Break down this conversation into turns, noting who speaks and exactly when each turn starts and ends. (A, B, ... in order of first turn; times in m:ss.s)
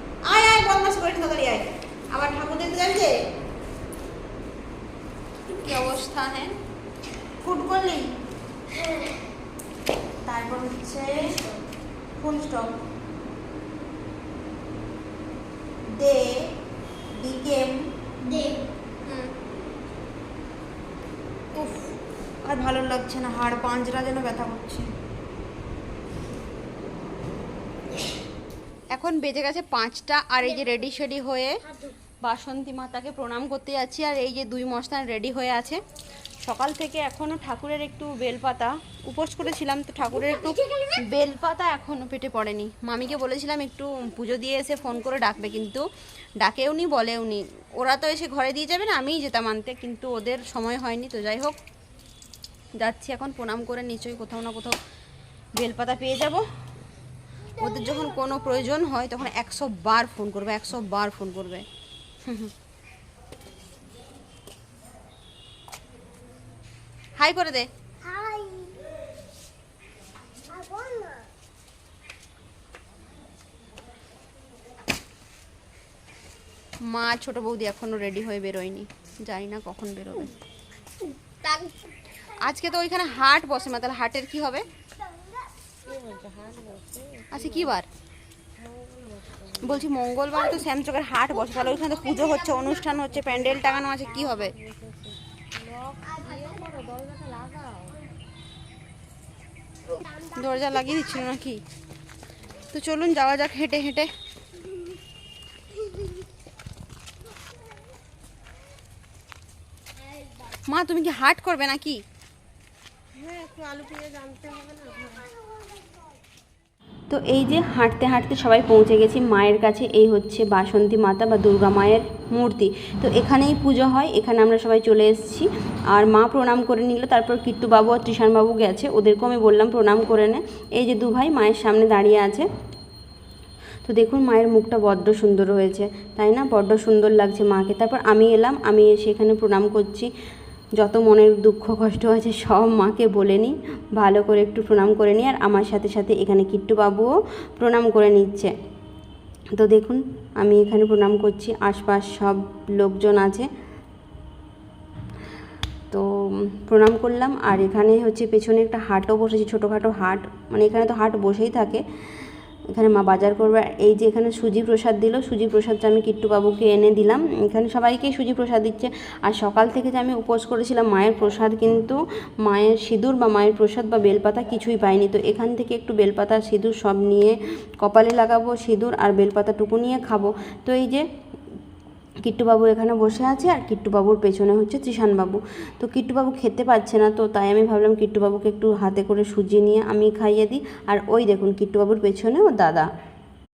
0:00.2-0:03.2 A
0:05.5-0:06.5 A
0:07.4-0:08.1 A
0:08.7-0:09.2 B
0:10.2-0:11.3 A
0:12.2-0:12.8 A
0:16.0-0:16.5 A
0:17.2-0:17.8 A
0:18.2-0:18.7 B
0:19.0-0:19.3 A
0:21.5-0:21.8 A
0:22.4-0:24.8 A
0:28.9-0:31.6 A
0:30.4-0:30.8 B
0:31.6-0:32.0 B
0:32.2-0:35.8 A
0:36.4-0:45.8 A
0:40.1-0:41.0 B
0:46.4-0:51.6 A
0:52.8-0:54.8 A
0:55.6-0:56.4 A
0:57.6-1:01.6 A
0:57.6-0:58.3 B
1:02.2-1:02.5 A
1:07.2-1:07.7 A
1:08.0-1:08.9 B
1:10.5-1:11.3 B
1:16.9-1:20.3 A
1:21.0-1:21.9 B
1:22.3-1:24.7 A
1:25.9-1:27.7 C
1:27.3-1:27.9 A
1:28.6-1:29.8 C
1:29.6-1:34.5 A
1:31.6-1:33.7 B
1:34.1-1:38.0 C
1:36.0-1:36.7 B
1:39.9-1:41.0 B
1:40.4-1:41.6 A
1:42.6-1:44.1 A
1:45.8-1:46.1 B
1:50.7-1:52.0 A
1:53.2-1:55.2 C
1:57.1-2:12.4 A
2:13.8-2:20.1 A
2:20.8-2:28.5 A
2:29.5-2:33.5 A
2:35.9-2:41.8 A
2:42.7-3:01.0 A
3:02.2-3:12.9 A